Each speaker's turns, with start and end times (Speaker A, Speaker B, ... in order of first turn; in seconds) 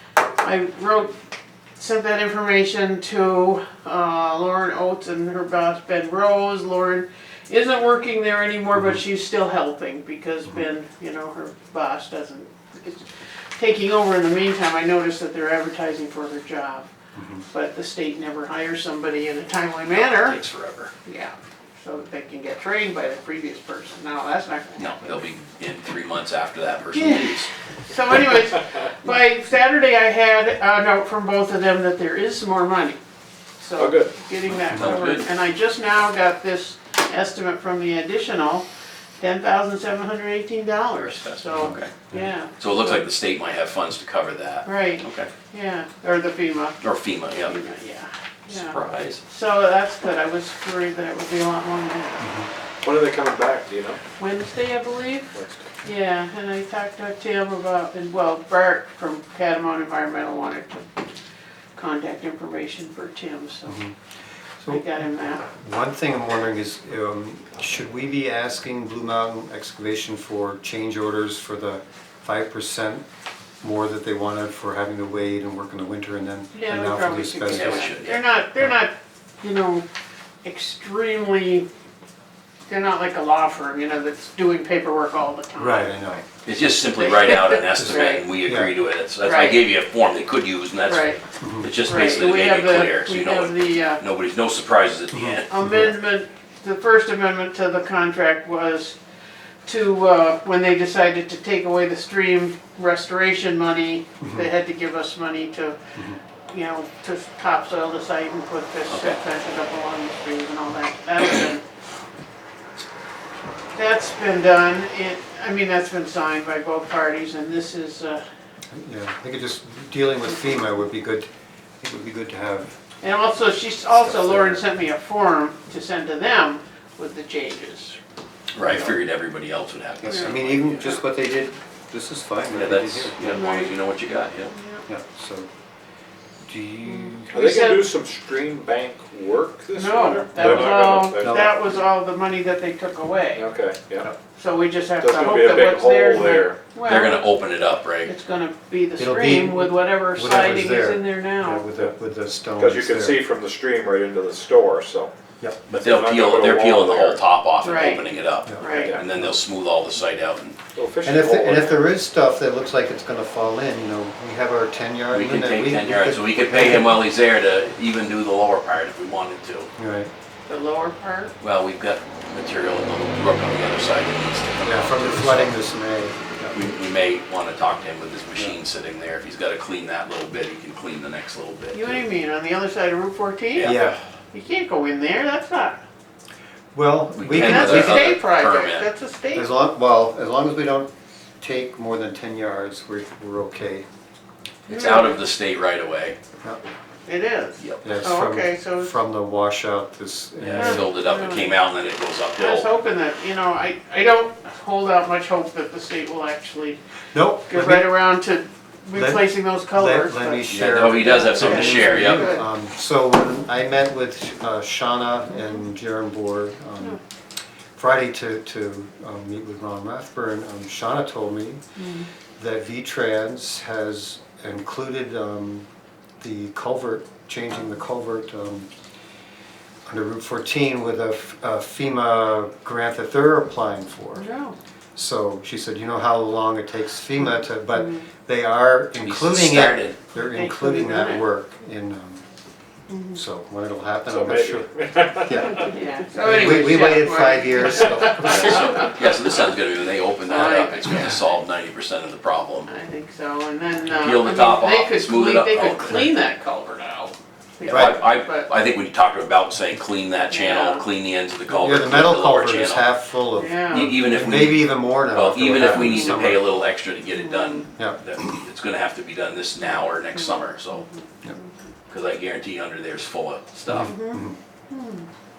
Speaker A: 0.4-1.1, 1.8-16.9, 17.5-20.4, 21.0-25.1, 26.9-33.0, 33.6-38.6, 39.2-42.5, 44.6-46.8, 47.4-52.3, 54.2-60.8, 61.7-63.8, 64.7-65.4, 76.5-79.8, 80.4-81.7, 82.7-86.0, 86.7-88.2, 89.2-89.6, 90.8-91.2, 91.8-94.0, 95.5-99.0, 99.6-105.8, 106.5-111.6, 113.7-118.2, 123.0-128.0, 133.2-133.8, 134.5-134.8, 136.9-137.9, 139.7-143.5, 144.3-147.3, 148.0-151.7, 157.6-158.1, 158.6-158.9, 170.5-171.3, 181.7-183.8, 184.3-185.8, 187.3-189.5, 194.7-195.2, 197.1-198.9, 200.5-201.5, 202.4-206.8, 207.4-212.4, 215.3-215.6, 221.8-222.1, 234.2-234.6, 237.7-238.1, 240.2-241.2, 242.9-243.2, 245.5-248.9, 250.2-251.2, 252.7-258.5, 260.3-260.8, 263.3-263.9, 267.2-267.6, 269.6-271.5, 273.8-275.1
Speaker B: 17.1-17.4, 52.2-52.5, 63.7-63.9, 64.6-73.0, 73.6-77.9, 85.6-86.3, 87.8-88.7, 91.4-91.7, 95.1-95.9, 104.2-104.5, 118.7-121.3, 121.8-122.8, 124.0-124.6, 128.6-129.0, 130.0-133.3, 134.9-135.5, 136.4-137.4, 140.4-140.7, 141.2-141.5, 149.0-153.2, 158.4-159.3, 161.0-167.0, 169.8-170.1, 174.6-176.6, 183.6-184.0, 186.7-188.1, 189.3-190.9, 191.4-193.8, 197.8-200.8, 207.1-208.0, 208.9-217.0, 217.8-221.6, 222.4-225.7, 226.2-228.7, 229.9-234.2, 234.9-242.2, 243.1-248.8, 257.7-258.0, 261.5-266.4, 273.7-274.4
Speaker C: 19.8-20.9, 24.8-27.5, 34.7-35.2, 41.0-41.9, 42.6-45.3, 46.8-47.6, 48.5-49.2, 77.4-78.2, 86.4-95.9, 108.9-109.2, 128.5-130.9, 132.5-134.5, 146.8-148.1, 155.7-160.6, 165.1-169.7, 171.4-175.6, 176.5-182.0, 183.6-184.0, 187.2-188.9, 194.7-196.2, 200.4-202.7, 210.5-212.3, 238.9-239.9, 248.2-252.7, 253.9-256.1, 257.6-262.9, 263.7-270.9, 271.9-273.9
Speaker D: 33.8-34.1, 52.8-54.0, 55.3-55.6, 137.3-141.6, 143.3-144.1, 145.0-146.6, 152.6-155.1, 155.7-157.2, 158.6-159.0, 160.7-161.8, 244.1-245.7